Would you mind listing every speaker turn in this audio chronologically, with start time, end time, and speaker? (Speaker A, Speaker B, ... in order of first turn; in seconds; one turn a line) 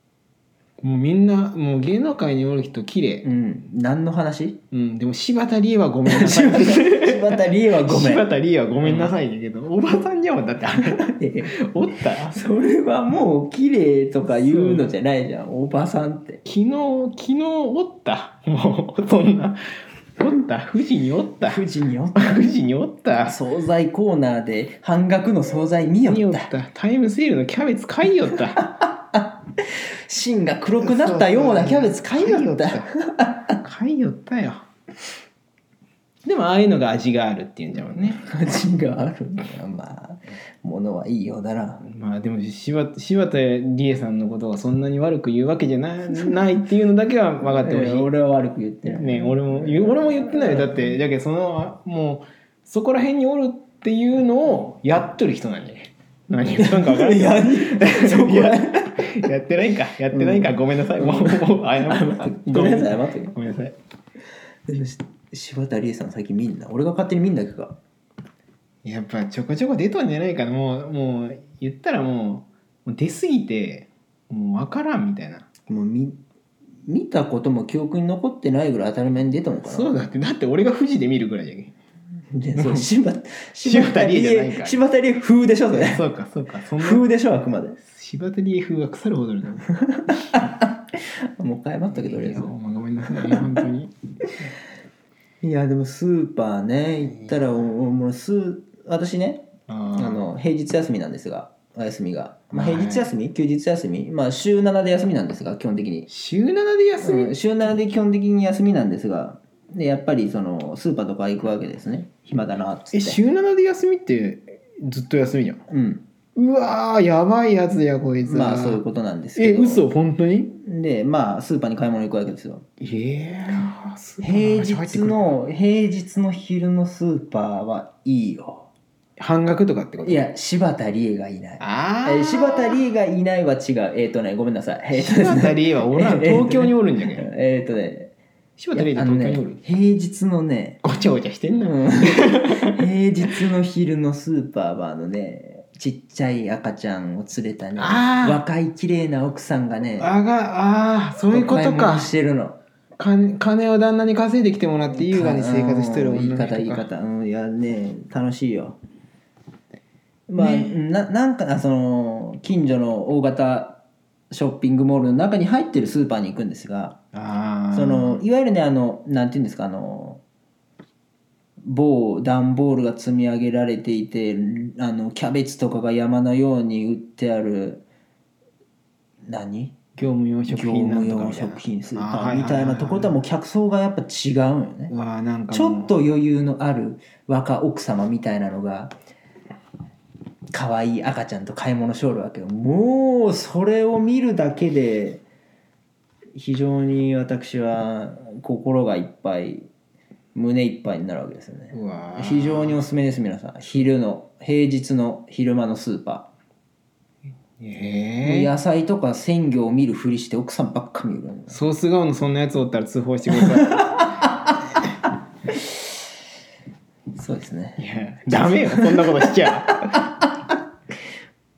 Speaker A: 0.8-3.3
Speaker B: 3.2-4.6
Speaker A: 4.7-12.4
Speaker B: 6.1-8.3
Speaker B: 8.8-9.1
Speaker B: 10.8-11.5
Speaker B: 12.3-16.4
Speaker A: 14.2-14.9
Speaker A: 16.4-19.6
Speaker A: 20.2-21.6
Speaker B: 21.4-22.4
Speaker A: 22.2-23.4
Speaker B: 23.2-26.5
Speaker A: 26.1-28.7
Speaker B: 28.6-33.6
Speaker A: 30.8-32.9
Speaker A: 33.6-34.7
Speaker A: 36.2-38.2
Speaker B: 38.1-41.8
Speaker A: 41.8-48.1
Speaker B: 47.4-50.9
Speaker A: 49.0-63.8
Speaker B: 56.5-59.1
Speaker B: 60.1-63.4
Speaker B: 64.7-67.8
Speaker A: 68.8-75.5
Speaker B: 75.7-76.2
Speaker B: 76.9-79.9
Speaker A: 79.7-81.7
Speaker B: 82.3-86.0
Speaker A: 82.6-82.9
Speaker A: 83.6-84.8
Speaker A: 85.7-87.0
Speaker B: 86.8-87.8
Speaker A: 87.8-89.7
Speaker B: 90.0-92.5
Speaker A: 91.9-93.9
Speaker B: 93.3-93.6
Speaker B: 95.4-106.1
Speaker A: 99.7-100.3
Speaker A: 102.5-103.1
Speaker A: 106.1-107.3
Speaker B: 107.0-113.2
Speaker A: 112.9-115.6
Speaker B: 115.7-116.0
Speaker A: 116.4-118.8
Speaker B: 118.2-119.8
Speaker A: 119.4-120.6
Speaker B: 120.5-122.7
Speaker A: 122.8-125.3
Speaker B: 124.2-128.7
Speaker A: 129.2-130.2
Speaker B: 130.0-138.1
Speaker A: 131.6-132.8
Speaker A: 134.9-137.3
Speaker A: 138.6-139.6
Speaker B: 138.7-140.8
Speaker A: 140.8-142.7
Speaker B: 141.6-150.1
Speaker A: 147.8-148.4
Speaker A: 150.0-152.1
Speaker B: 151.3-152.6
Speaker A: 153.0-156.8
Speaker B: 155.0-158.8
Speaker B: 160.3-167.0
Speaker A: 160.4-160.8
Speaker A: 167.1-168.2
Speaker B: 167.7-170.2
Speaker B: 171.6-177.8
Speaker B: 179.3-179.8
Speaker A: 180.0-183.1
Speaker B: 180.5-184.9
Speaker A: 184.9-185.9
Speaker B: 185.5-188.9
Speaker B: 190.5-195.2
Speaker B: 196.3-199.7
Speaker B: 200.3-206.3
Speaker A: 201.7-202.8
Speaker A: 207.6-208.5
Speaker B: 208.2-211.6
Speaker A: 211.5-214.1
Speaker B: 213.3-214.5
Speaker B: 217.1-220.6
Speaker A: 217.8-219.8